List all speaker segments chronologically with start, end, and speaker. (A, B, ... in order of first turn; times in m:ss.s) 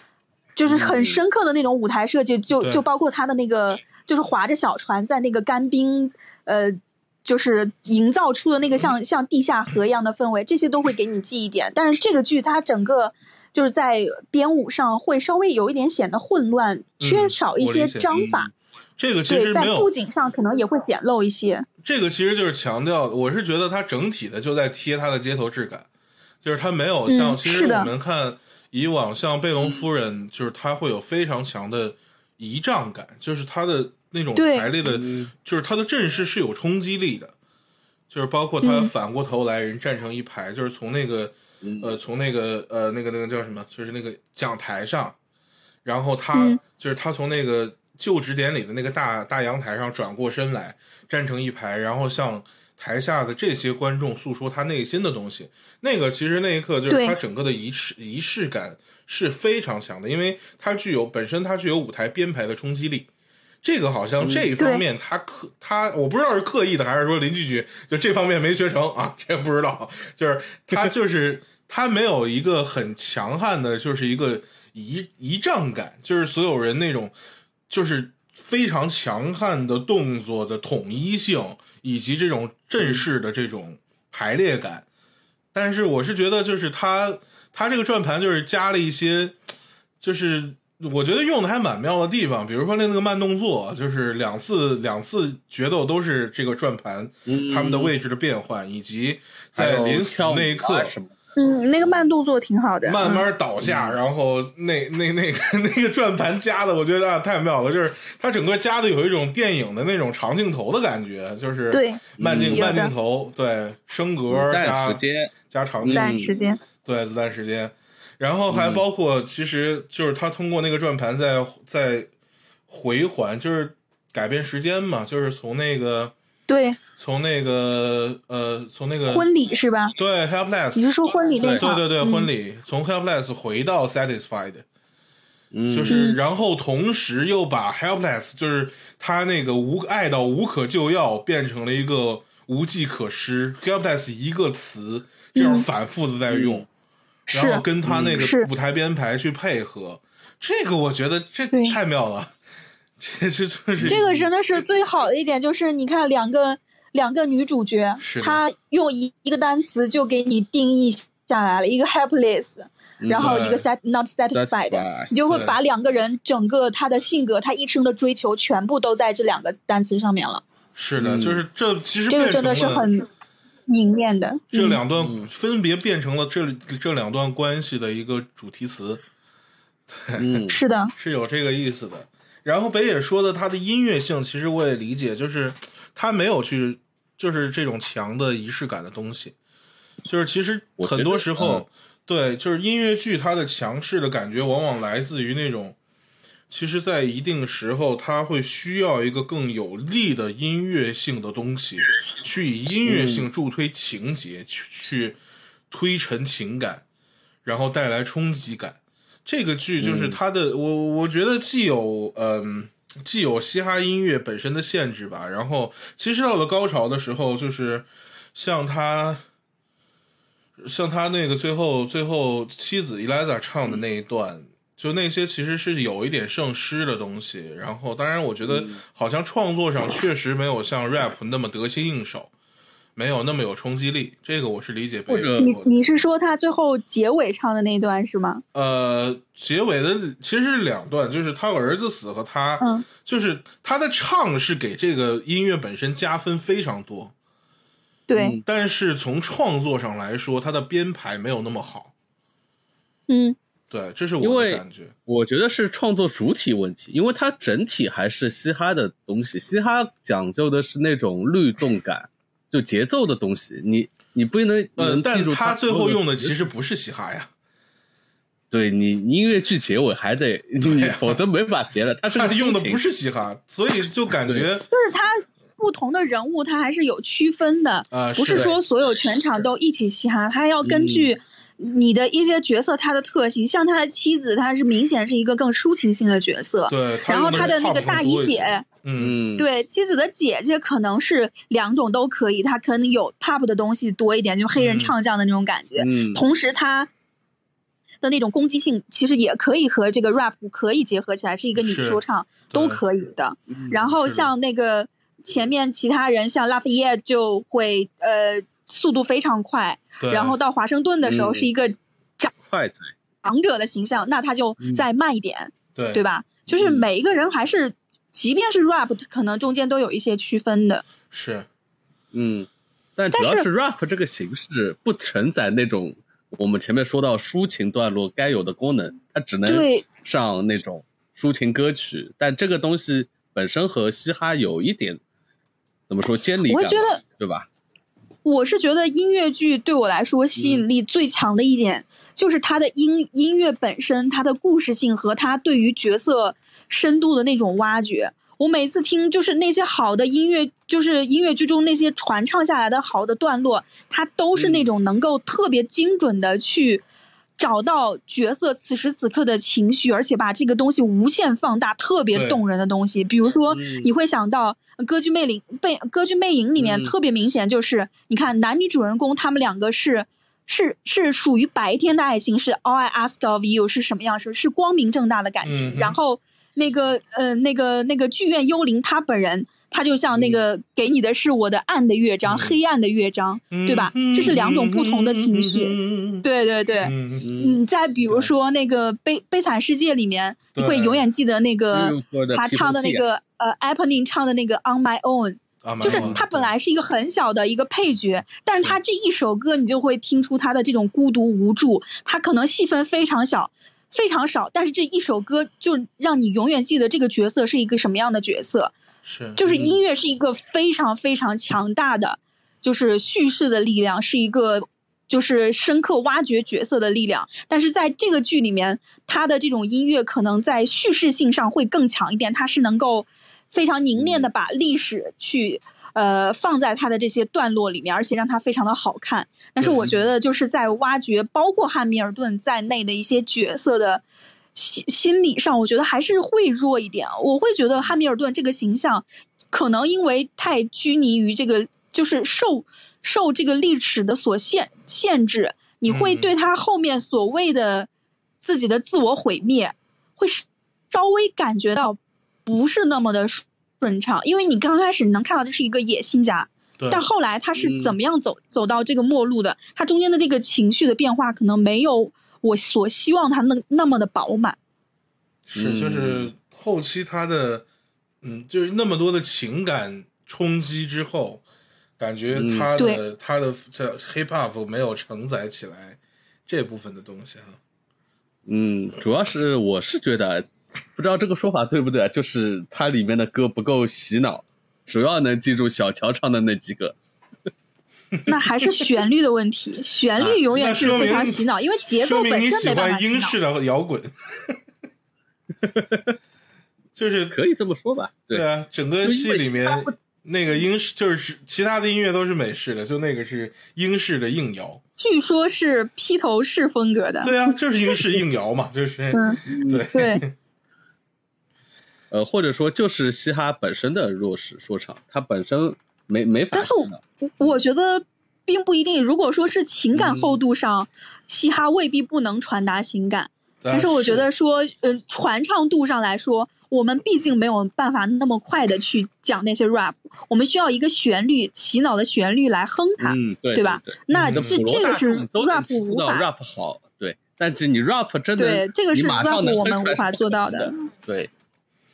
0:00.6-0:18.5 A
0:00.7-0:01.2 B
0:02.6-0:02.8 C
0:17.0-0:18.3 C
0:19.0-0:19.9 C
0:19.3-0:21.6 A
0:21.8-0:25.9 C
0:26.4-0:37.3 C
0:27.1-0:27.9 A
0:34.4-0:34.7 A
0:34.8-0:35.3 B
0:38.1-0:45.2 C
0:38.6-0:38.9 A
0:41.6-0:42.0 B
0:45.8-1:03.1 C
0:46.3-0:46.6 A
0:56.9-0:57.2 A
1:03.6-1:17.1 C
1:04.2-1:04.5 B
1:04.6-1:04.8 A
1:17.7-1:24.8 C
1:25.5-1:29.4 C
1:30.0-1:40.9 C
1:37.3-1:37.9 B
1:39.5-1:41.1 B
1:41.4-1:43.2 A
1:42.8-1:56.1 C
1:43.6-1:44.0 B
1:51.7-1:52.9 A
1:52.2-1:52.7 B
1:54.3-1:56.3 B
1:55.9-1:56.6 A
1:56.8-2:02.1 C
1:58.5-1:58.8 B
2:02.7-2:06.1 C
2:06.5-2:06.8 A
2:07.0-2:09.3 C
2:09.1-2:09.9 A
2:10.0-2:10.9 C
2:10.8-2:12.3 A
2:11.4-2:11.7 B
2:11.5-2:14.6 C
2:15.5-2:16.0 B
2:15.7-2:26.7 C
2:15.9-2:16.2 A
2:25.3-2:25.7 A
2:26.3-2:26.6 B
2:27.3-2:28.5 A
2:27.3-2:32.3 C
2:27.8-2:28.3 B
2:31.5-2:31.8 A
2:33.0-2:34.0 C
2:33.8-2:34.2 B
2:33.8-2:50.4 A
2:38.0-2:38.4 C
2:43.0-2:43.4 B
2:43.1-2:43.6 C
2:44.3-2:45.1 B
2:45.3-2:45.5 C
2:50.7-2:52.9 C
2:51.0-2:51.4 B
2:52.1-2:53.1 A
2:53.7-2:54.8 A
2:54.5-2:59.0 C
2:55.0-2:55.2 B
2:59.9-3:00.4 C
3:00.2-3:00.6 B
3:00.5-3:00.9 A
3:01.0-3:09.3 C
3:10.0-3:15.8 C
3:10.8-3:11.6 B
3:16.5-3:25.2 C
3:22.8-3:23.3 B
3:25.7-3:26.8 C
3:27.4-3:39.2 C
3:29.8-3:30.2 B
3:40.6-3:52.3 C
3:48.4-3:48.8 B
3:53.0-3:55.8 C
3:55.1-3:55.6 B
3:55.4-3:58.4 A
3:58.5-4:07.1 C
4:02.6-4:02.8 A
4:08.1-4:08.4 A
4:08.1-4:08.4 B
4:08.4-4:11.9 C
4:13.1-4:13.4 A
4:13.7-4:14.9 C
4:14.2-4:26.5 B
4:24.8-4:27.3 C
4:28.5-4:32.8 B
4:30.6-4:31.2 C
4:32.1-4:34.7 C
4:34.7-4:48.6 A
4:37.9-4:38.5 C
4:38.3-4:38.6 B
4:40.6-4:41.1 B
4:46.7-4:49.2 C
4:49.0-4:49.4 B
4:49.4-4:56.9 A
4:54.5-4:54.9 C
4:55.8-4:56.2 B
4:58.0-5:12.3 A
5:01.6-5:02.8 C
5:03.5-5:03.8 B
5:03.9-5:04.3 C
5:10.0-5:10.4 C
5:11.0-5:11.5 B
5:12.4-5:12.9 B
5:13.2-5:20.8 A
5:14.6-5:14.8 B
5:15.8-5:16.0 C
5:16.5-5:16.8 B
5:21.1-5:21.5 C
5:22.1-5:35.0 B
5:23.1-5:23.4 A
5:29.4-5:29.8 A
5:35.9-5:37.5 B
5:36.5-5:37.0 A
5:38.2-5:56.8 A
5:40.4-5:40.6 B
5:54.3-5:54.7 B
5:57.4-6:48.7 A
6:02.1-6:02.4 C
6:03.5-6:03.9 B
6:06.6-6:06.9 B
6:15.4-6:16.0 C
6:20.1-6:20.4 B
6:22.2-6:22.6 C
6:23.5-6:26.3 C
6:26.8-6:27.3 C
6:27.2-6:27.6 B
6:30.5-6:31.0 C
6:31.7-6:33.0 B
6:35.6-6:36.5 C
6:35.8-6:36.2 B
6:49.0-6:49.4 C
6:49.4-7:14.0 A
6:49.5-6:49.7 B
7:04.0-7:04.2 B
7:09.6-7:10.0 C
7:14.5-7:27.9 A
7:25.9-7:26.3 C
7:28.4-7:44.6 A
7:36.8-7:37.0 C
7:37.6-7:38.0 B
7:45.5-7:47.6 C
7:45.5-7:46.3 B
7:48.2-7:51.4 C
7:52.0-7:57.6 C
7:52.3-7:52.7 B
7:52.8-7:53.0 A
7:58.5-8:07.0 B
8:08.3-8:13.4 A
8:10.2-8:11.1 B
8:10.5-8:14.6 C
8:15.6-8:16.2 B
8:16.9-8:17.4 C
8:17.3-8:18.4 B
8:18.3-8:24.8 C
8:19.0-8:19.9 B
8:25.0-8:27.4 A
8:27.2-8:30.3 C
8:29.1-8:30.2 A
8:29.5-8:29.8 B
8:32.1-8:37.5 B
8:36.5-8:56.2 A
8:39.9-8:40.4 B
8:43.6-8:44.2 C
8:53.0-9:01.3 B
8:54.1-8:54.6 C
8:58.4-9:00.8 A